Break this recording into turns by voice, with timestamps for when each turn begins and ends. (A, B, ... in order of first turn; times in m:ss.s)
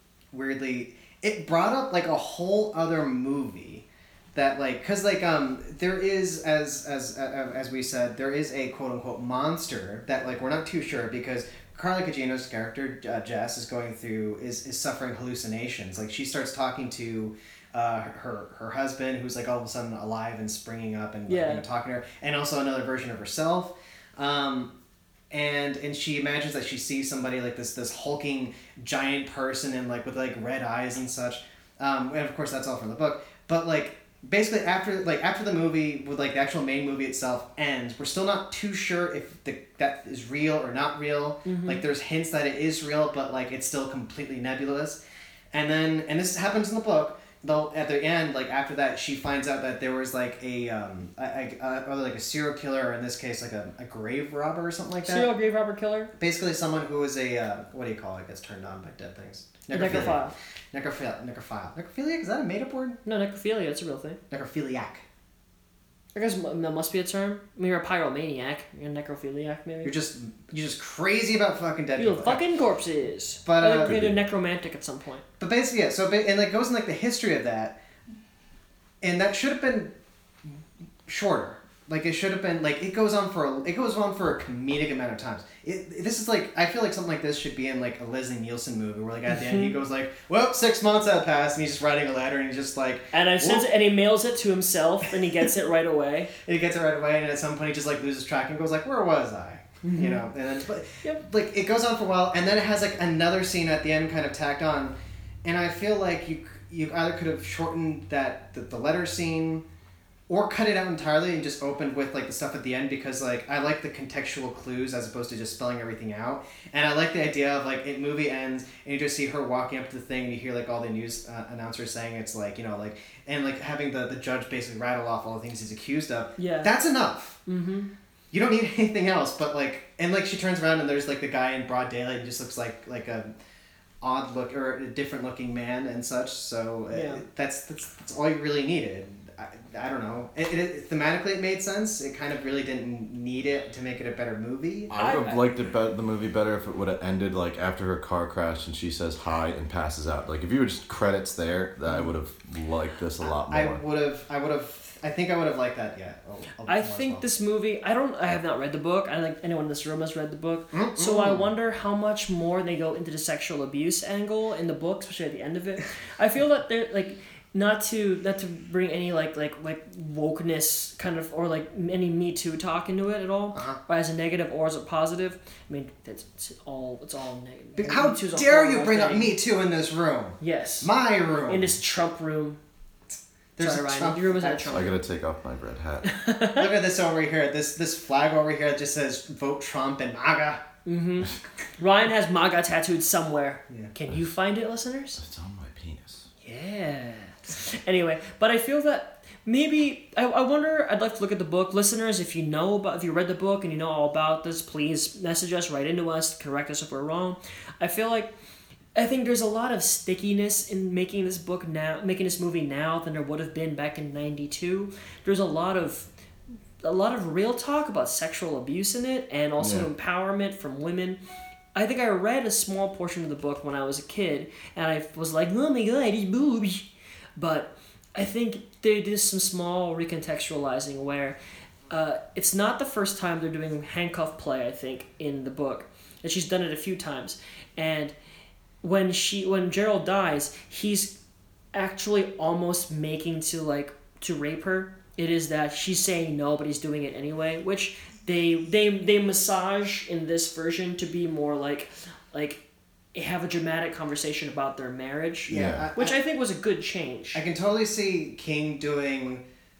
0:00.3-0:24.7 A
0:21.3-0:21.6 B
0:25.3-0:45.0 A
0:41.4-0:41.8 B
0:45.5-0:55.3 A
0:55.0-0:56.1 B
0:56.2-1:03.0 A
0:59.7-1:00.4 B
1:03.0-1:04.2 B
1:04.3-1:05.0 A
1:06.2-1:09.9 B
1:09.8-1:12.4 A
1:12.0-1:15.2 B
1:13.4-1:14.0 A
1:13.8-1:14.2 C
1:15.4-1:17.8 A
1:19.0-1:19.9 A
1:21.1-1:33.7 A
1:33.1-1:36.3 B
1:36.4-1:49.6 A
1:39.8-1:40.2 B
1:50.3-2:07.4 A
2:06.4-2:06.7 B
2:07.5-2:07.9 B
2:08.3-2:13.3 A
2:14.0-2:24.9 A
2:16.9-2:17.2 B
2:24.9-2:33.8 C
2:24.9-2:25.4 B
2:33.2-2:37.2 A
2:36.7-2:59.3 B
2:40.7-2:41.5 A
2:53.5-2:53.8 A
2:57.8-3:01.8 A
3:00.4-3:00.9 B
3:01.5-3:02.6 B
3:03.6-3:04.9 A
3:03.6-3:05.0 B
3:04.7-3:06.1 C
3:06.0-3:06.7 B
3:06.6-3:10.6 A
3:10.8-3:15.2 B
3:15.2-3:16.3 C
3:16.4-3:28.3 B
3:29.0-3:36.1 B
3:36.8-3:41.2 B
3:39.6-3:39.9 C
3:41.8-3:51.4 B
3:51.9-3:58.1 B
3:58.8-4:01.2 B
4:01.7-4:12.6 B
4:13.1-4:17.4 B
4:15.5-4:16.2 A
4:15.5-4:15.9 C
4:17.3-4:19.4 A